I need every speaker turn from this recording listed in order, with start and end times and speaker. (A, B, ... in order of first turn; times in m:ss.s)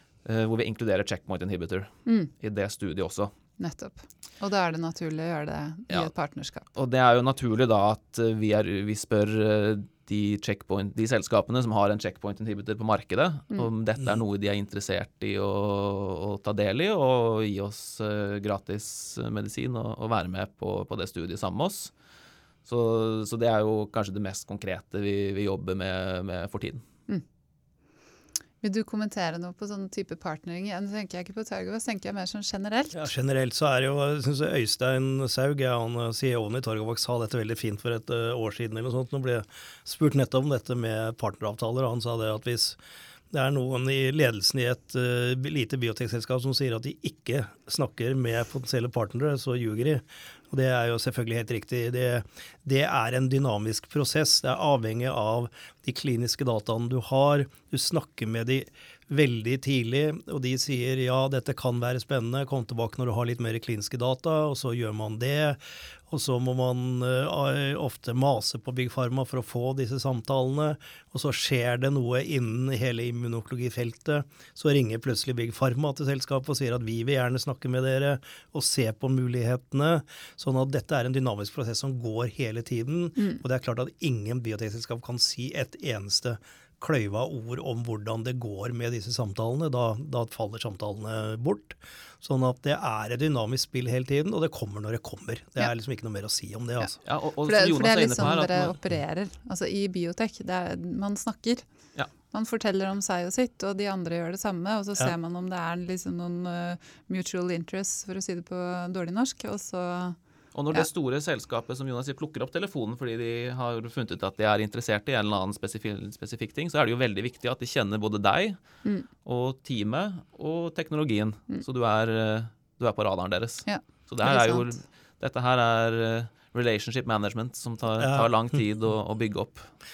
0:00.2-0:03.3 A
0:03.6-0:06.7 B
0:06.7-0:21.9 A
0:22.6-0:26.8 A
0:28.6-0:33.0 B
0:32.9-0:42.8 C
0:43.3-1:37.0 C
1:37.0-1:38.7 A
1:37.4-1:41.6 B
1:42.3-1:50.2 B
1:50.5-1:58.6 A
1:59.2-2:09.7 A
2:03.6-2:04.7 B
2:08.0-2:08.3 C